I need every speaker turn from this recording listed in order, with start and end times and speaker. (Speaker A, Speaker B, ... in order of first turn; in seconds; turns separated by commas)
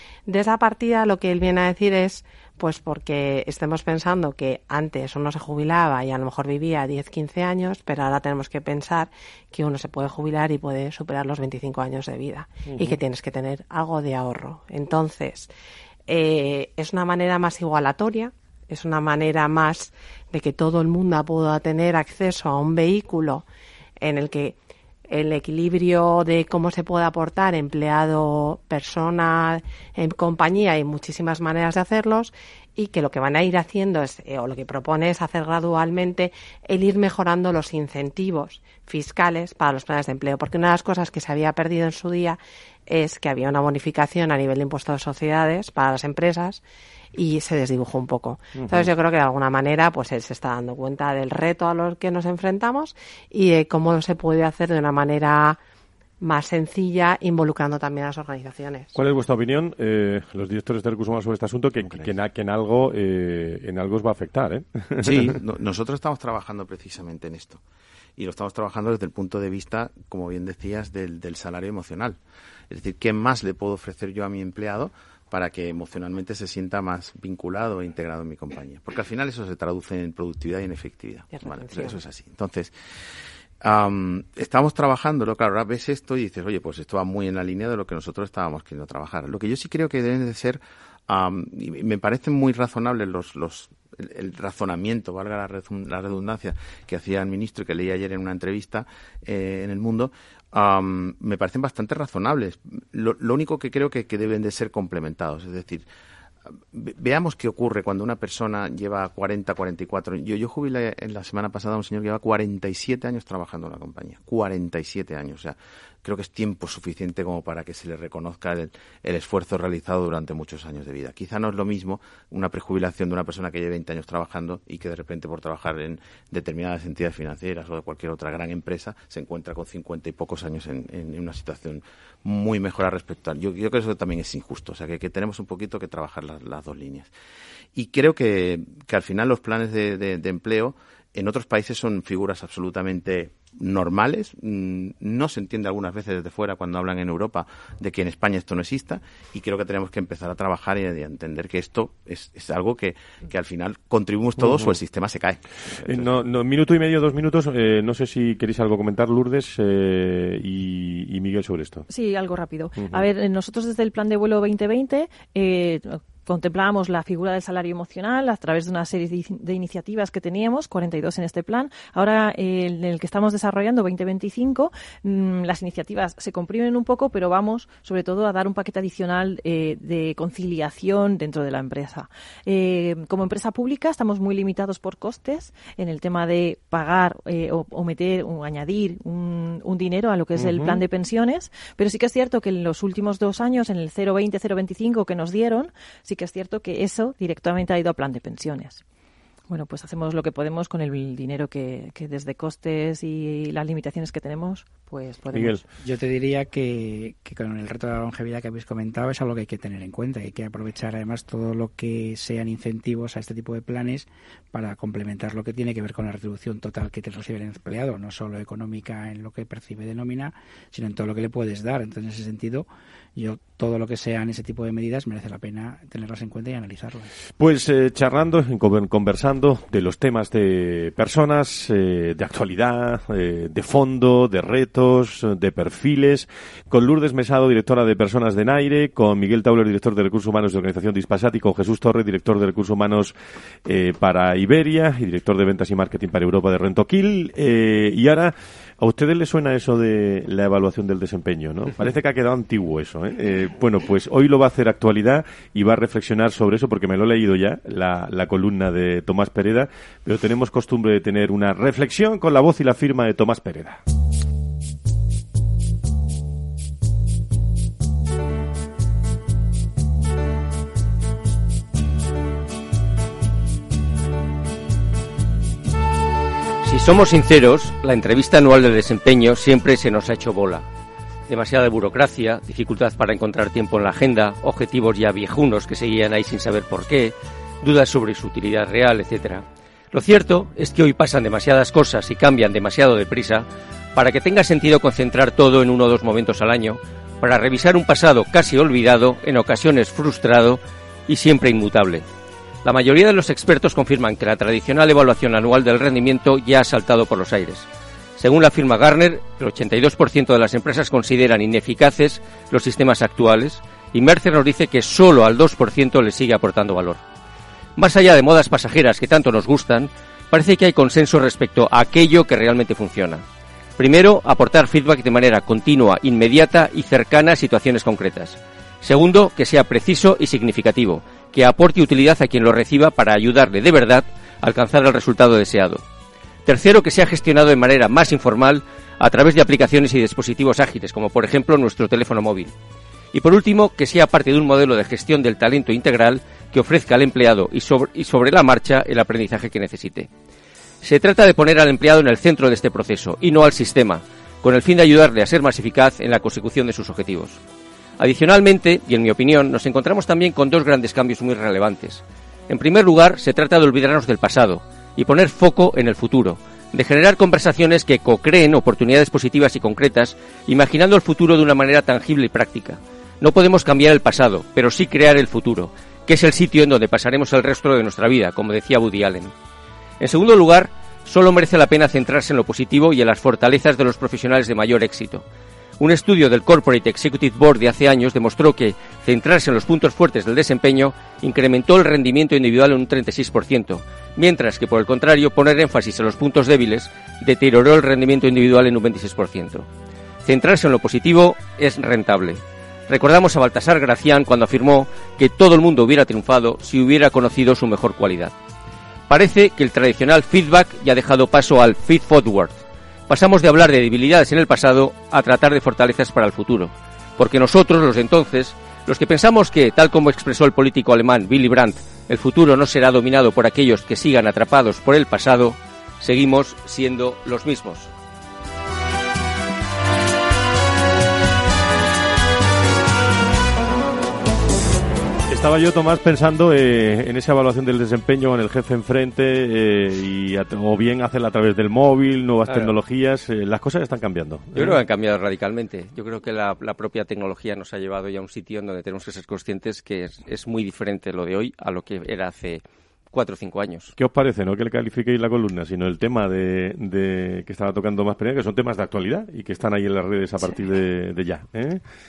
Speaker A: 0.3-15.5, Speaker B: 12.7-13.0, Speaker A: 16.1-23.4, Speaker A: 24.0-24.6, Speaker A: 25.1-46.6, Speaker A: 47.1-55.6, Speaker B: 48.5-48.9, Speaker A: 56.2-58.9, Speaker B: 58.9-65.3, Speaker C: 61.8-62.1, Speaker C: 65.0-67.6, Speaker C: 68.2-72.2, Speaker C: 72.7-82.7, Speaker A: 81.3-82.0, Speaker C: 83.6-105.8, Speaker C: 106.7-137.1, Speaker C: 137.7-156.1, Speaker B: 154.4-154.7, Speaker B: 155.9-161.8, Speaker D: 161.9-198.8, Speaker B: 162.8-163.0, Speaker B: 190.3-190.8, Speaker D: 199.5-205.6, Speaker B: 205.3-205.6, Speaker E: 205.8-227.1, Speaker B: 227.4-243.1, Speaker B: 243.6-263.8, Speaker F: 276.6-280.6, Speaker F: 281.3-302.1, Speaker F: 302.6-317.0, Speaker F: 317.8-323.2, Speaker F: 323.8-335.8, Speaker F: 336.4-342.5, Speaker F: 343.1-350.1, Speaker F: 350.8-357.4, Speaker F: 358.0-379.3, Speaker F: 380.0-385.2, Speaker F: 385.8-399.7, Speaker F: 400.2-408.3, Speaker F: 409.1-427.9, Speaker B: 435.3-444.8, Speaker F: 442.4-442.7, Speaker F: 444.5-453.9, Speaker B: 453.9-461.8